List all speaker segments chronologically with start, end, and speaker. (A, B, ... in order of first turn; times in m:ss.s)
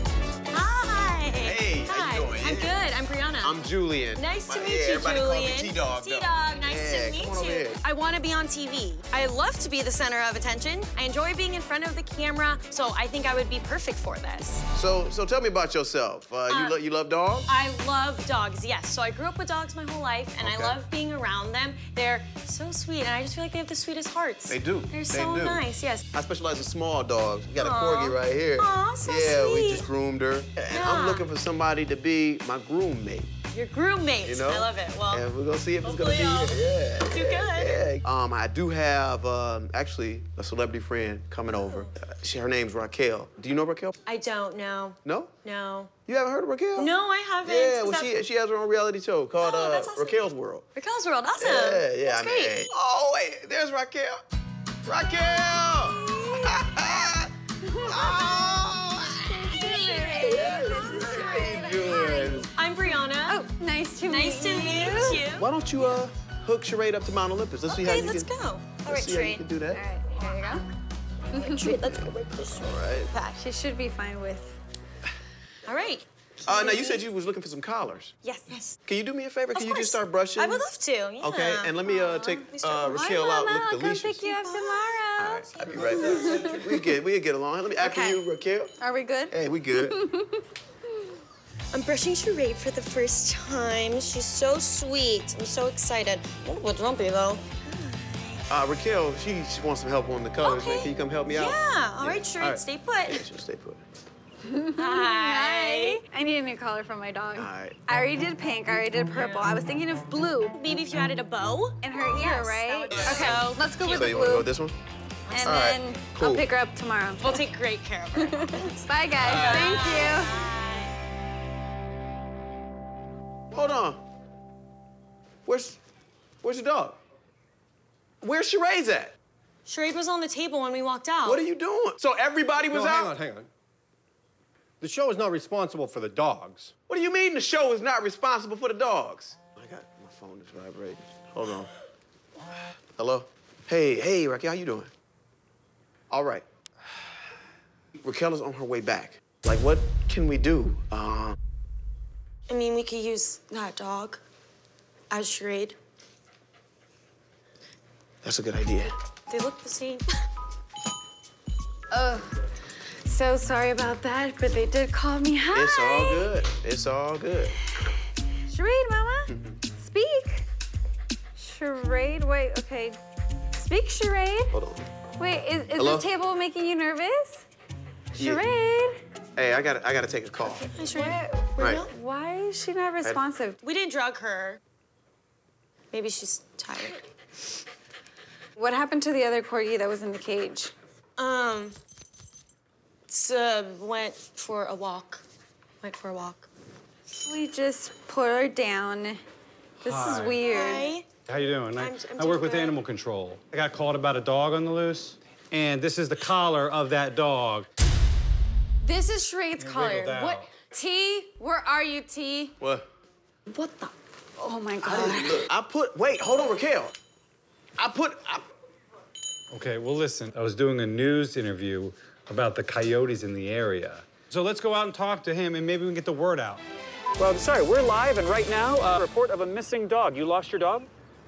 0:00.5-0:03.6 A
0:01.3-0:02.8 B
0:03.4-0:07.8 B
0:04.2-0:14.6 A
0:14.7-0:17.5 B
0:16.5-0:16.8 A
0:17.5-0:26.0 A
0:20.4-0:20.8 B
0:24.5-0:33.3 B
0:27.6-0:29.9 A
0:30.7-0:31.3 A
0:33.5-0:35.3 A
0:34.2-0:44.0 B
0:35.8-0:37.9 A
0:41.5-0:41.9 A
0:44.1-0:45.9 A
0:45.0-0:45.3 B
0:46.1-0:46.9 B
0:46.8-0:48.1 A
0:47.4-0:50.7 B
0:49.4-0:50.2 A
0:50.8-0:52.7 A
0:51.4-0:54.2 B
0:54.8-0:57.3 B
0:55.1-0:56.6 A
0:57.6-0:58.3 C
0:57.8-0:59.6 B
0:59.2-1:02.5 C
0:59.5-1:00.7 A
1:00.2-1:02.5 B
1:02.5-1:03.4 A
1:03.3-1:05.2 C
1:04.1-1:05.5 A
1:05.4-1:08.3 B
1:07.7-1:09.4 A
1:08.8-1:09.8 B
1:09.7-1:10.6 C
1:11.3-1:13.4 A
1:11.3-1:11.7 C
1:12.6-1:13.1 B
1:13.4-1:14.6 C
1:15.7-1:17.1 A
1:16.5-1:18.1 B
1:18.2-1:18.8 A
1:18.9-1:20.7 B
1:19.5-1:23.2 A
1:21.2-1:24.3 B
1:22.8-1:25.0 C
1:24.2-1:25.9 A
1:25.2-1:28.7 B
1:25.8-1:26.7 C
1:26.2-1:26.5 D
1:27.8-1:28.2 C
1:28.8-1:30.4 C
1:29.3-1:30.0 B
1:31.7-1:38.4 A
1:38.5-1:43.8 B
1:40.4-1:43.2 A
1:44.5-1:50.6 C
1:44.8-1:46.0 A
1:47.4-1:47.8 B
1:49.1-1:49.5 A
1:50.5-1:54.2 A
1:51.8-1:54.5 C
1:52.9-1:54.8 B
1:55.3-1:55.6 A
1:55.3-1:57.4 C
1:55.4-1:56.5 B
1:57.2-2:01.0 A
1:58.2-2:00.3 C
1:59.2-2:00.1 B
2:03.5-2:04.0 B
2:05.5-2:05.8 B
2:06.4-2:07.0 B
2:08.2-2:09.2 B
2:09.7-2:11.4 A
2:11.2-2:13.2 B
2:12.6-2:13.5 D
2:14.8-2:16.7 D
2:16.9-2:21.7 B
2:23.0-2:24.9 B
2:26.1-2:26.4 B
2:28.0-2:31.4 B
2:32.5-2:34.2 A
2:35.1-2:35.8 A
2:38.2-2:38.9 B
2:39.3-2:40.1 A
2:41.9-2:42.3 C
2:43.0-2:46.3 C
2:45.5-2:47.6 B
2:48.5-2:50.5 C
2:49.3-2:49.5 B
2:51.4-2:53.0 C
2:53.6-2:54.5 C
2:54.5-2:54.8 B
2:55.2-2:57.5 C
2:55.8-2:56.1 B
2:58.1-2:59.0 C
2:58.2-2:58.4 B
2:59.4-3:00.7 B
3:00.4-3:01.9 A
3:01.0-3:03.6 C
3:01.6-3:01.8 B
3:03.6-3:04.6 A
3:05.9-3:07.0 A
3:08.6-3:10.7 C
3:11.2-3:11.8 A
3:13.1-3:15.2 A
3:15.8-3:16.5 A
3:17.2-3:19.2 C
3:19.8-3:20.4 E
3:19.8-3:20.9 C
3:20.4-3:21.1 A
3:21.3-3:27.7 E
3:21.7-3:22.8 A
3:28.8-3:32.6 C
3:29.6-3:30.5 E
3:32.6-3:32.9 B
3:33.5-3:35.5 C
3:34.8-3:36.9 B
3:37.8-3:38.5 B
3:39.5-3:46.6 E
3:47.2-3:50.9 F